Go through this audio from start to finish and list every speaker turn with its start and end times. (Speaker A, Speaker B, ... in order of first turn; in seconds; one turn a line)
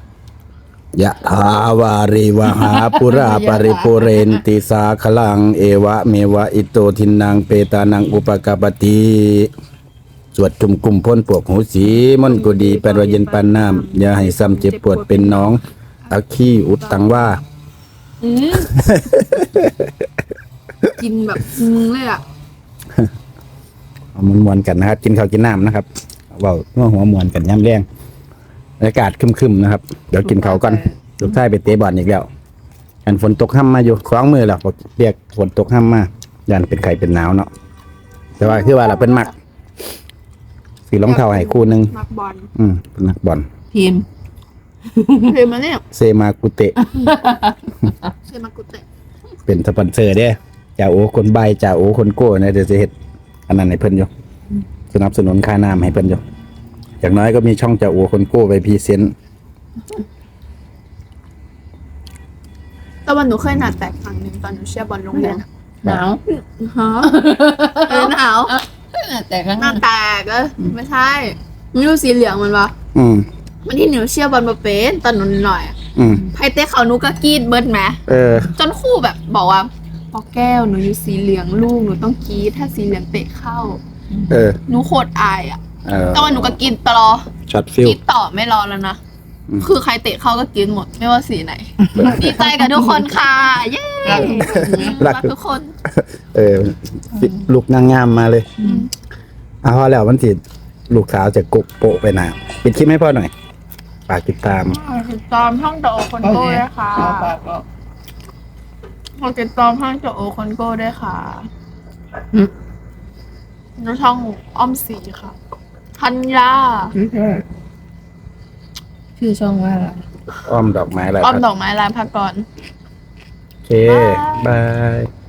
Speaker A: 0.9-9.5
Speaker B: 2.5-4.4
Speaker A: 10.3-17.4
Speaker C: 12.2-15.6
Speaker C: 16.8-17.1
Speaker C: 18.2-18.7
Speaker A: 18.7-19.9
Speaker C: 21.0-22.2
Speaker A: 24.1-27.9
Speaker A: 28.8-32.3
Speaker B: 30.2-30.9
Speaker A: 33.0-37.5
Speaker A: 38.4-39.3
Speaker B: 38.6-39.2
Speaker A: 40.9-41.9
Speaker C: 41.0-42.5
Speaker A: 42.5-43.5
Speaker B: 43.7-44.1
Speaker B: 45.0-45.3
Speaker C: 45.2-45.8
Speaker A: 45.9-46.8
Speaker B: 46.9-47.5
Speaker C: 48.2-48.9
Speaker A: 49.5-52.9
Speaker A: 53.5-54.1
Speaker A: 54.9-56.2
Speaker A: 57.0-59.1
Speaker C: 63.1-65.5
Speaker B: 65.1-66.2
Speaker C: 66.3-67.2
Speaker B: 67.0-69.8
Speaker C: 67.9-68.5
Speaker C: 69.6-72.7
Speaker A: 72.9-73.3
Speaker C: 73.7-75.8
Speaker A: 76.0-76.3
Speaker C: 76.3-78.0
Speaker A: 78.1-78.5
Speaker C: 78.5-83.8
Speaker A: 84.3-84.6
Speaker C: 84.7-85.6
Speaker A: 85.8-86.6
Speaker C: 86.1-87.3
Speaker A: 87.5-88.0
Speaker C: 87.8-89.0
Speaker C: 89.6-95.8
Speaker B: 91.9-93.0
Speaker A: 92.0-92.3
Speaker B: 94.0-95.0
Speaker A: 94.5-95.3
Speaker A: 95.9-98.5
Speaker C: 98.6-98.9
Speaker A: 99.6-103.3
Speaker A: 104.1-104.8
Speaker C: 104.6-107.3
Speaker B: 106.2-107.7
Speaker C: 109.2-111.5
Speaker C: 113.8-115.4
Speaker C: 116.0-116.9
Speaker B: 117.0-117.5
Speaker B: 119.2-120.0
Speaker A: 120.5-121.4
Speaker C: 121.2-122.5
Speaker A: 123.7-125.1
Speaker C: 123.9-124.5